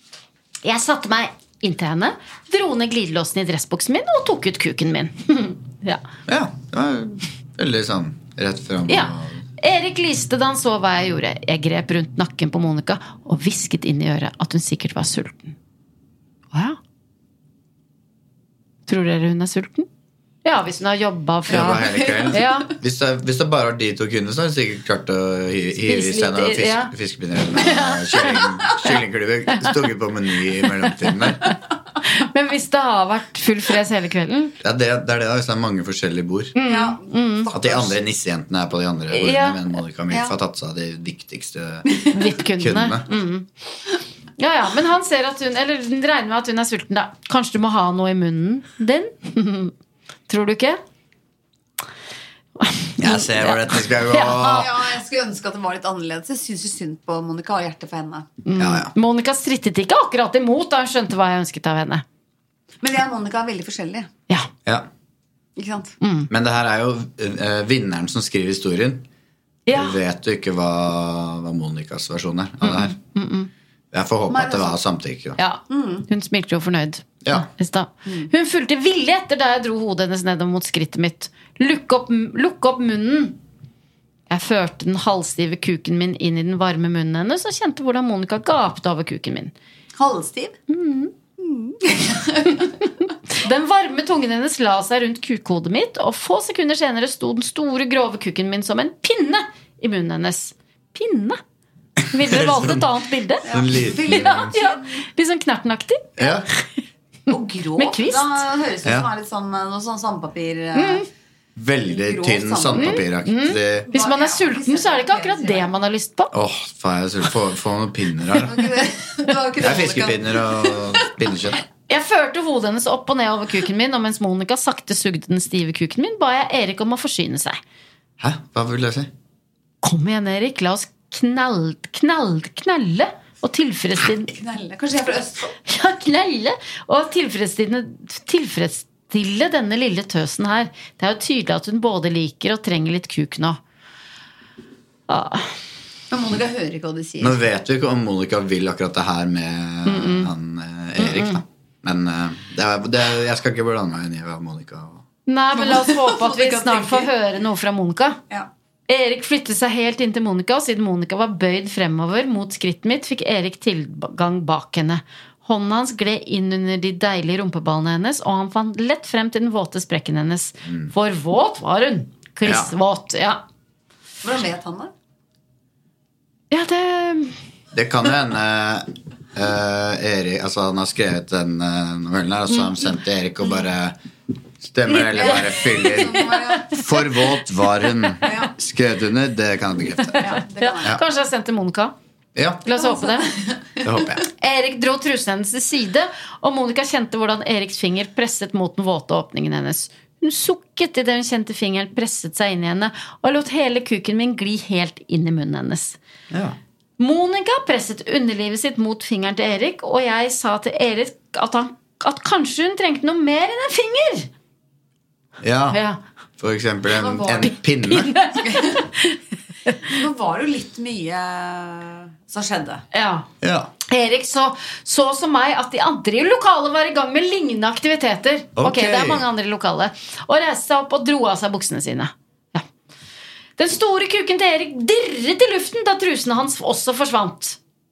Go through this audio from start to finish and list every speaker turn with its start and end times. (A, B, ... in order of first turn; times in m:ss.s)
0:00.6-0:06.0 A
0:06.3-0:09.4 B
0:08.9-0:15.6 A
0:16.5-0:16.8 A
0:18.9-0:19.9 A
0:20.4-0:22.7 A
0:21.5-0:31.4 B
0:21.7-0:22.5 C
0:25.8-0:26.9 A
0:27.6-0:28.4 A
0:32.0-0:34.6 A
0:34.6-0:36.6 B
0:36.6-0:37.5 A
0:36.6-0:38.0 C
0:37.5-0:43.1 B
0:39.1-0:39.6 A
0:42.1-0:43.5 A
0:44.4-0:49.7 A
0:50.3-0:50.8 A
0:52.6-0:54.7 A
0:53.0-0:54.8 B
0:54.5-0:58.3 C
0:58.4-1:02.0 A
0:58.6-0:58.9 B
1:02.8-1:04.1 C
1:05.6-1:06.0 C
1:06.0-1:06.3 A
1:06.3-1:09.1 B
1:09.7-1:10.0 A
1:09.7-1:13.0 B
1:12.6-1:13.5 A
1:13.9-1:15.4 B
1:14.3-1:14.8 C
1:15.4-1:23.4 A
1:15.7-1:16.1 C
1:24.3-1:29.5 A
1:30.0-1:30.6 C
1:30.7-1:31.1 A
1:31.4-1:32.7 C
1:32.6-1:41.4 A
1:42.1-1:43.5 A
1:42.1-1:42.8 B
1:43.4-1:45.0 C
1:43.5-1:44.5 B
1:44.1-1:46.6 A
1:46.2-1:46.5 B
1:47.3-1:51.1 C
1:47.8-1:48.4 A
1:50.8-1:51.0 A
1:51.6-1:53.9 B
1:51.9-1:53.0 C
1:52.8-1:56.3 A
1:53.9-1:55.7 C
1:56.3-1:58.6 B
1:58.4-2:01.1 C
1:59.6-2:01.6 B
2:01.9-2:07.6 A
2:08.2-2:09.1 B
2:09.8-2:14.3 A
2:14.3-2:15.6 C
2:15.7-2:23.6 A
2:25.1-2:25.5 A
2:26.1-2:27.4 C
2:27.2-2:35.0 B
2:29.9-2:30.3 A
2:31.0-2:31.4 A
2:35.3-2:38.2 A
2:35.5-2:37.1 C
2:38.9-2:53.4 A
2:52.4-2:52.7 B
2:54.2-2:54.9 C
2:56.5-2:57.4 A
2:57.7-3:04.0 B
3:04.6-3:10.3 B
3:04.9-3:06.8 A
3:05.0-3:06.9 C
3:08.2-3:08.5 C
3:10.1-3:11.9 A
3:10.2-3:11.0 C
3:12.4-3:12.6 B
3:12.6-3:13.3 A
3:12.8-3:14.1 C
3:13.8-3:14.3 B
3:14.4-3:26.0 A
3:26.3-3:26.6 B
3:27.0-3:34.3 A
3:35.4-3:35.8 B
3:35.7-3:36.0 A
3:36.4-3:38.2 B
3:37.0-3:37.5 C
3:37.3-3:39.9 A
3:38.4-3:38.8 C
3:39.9-3:42.8 C
3:42.9-3:43.3 A
3:43.4-3:43.7 B
3:43.9-3:52.6 A
3:48.6-3:49.3 B
3:53.6-3:57.6 A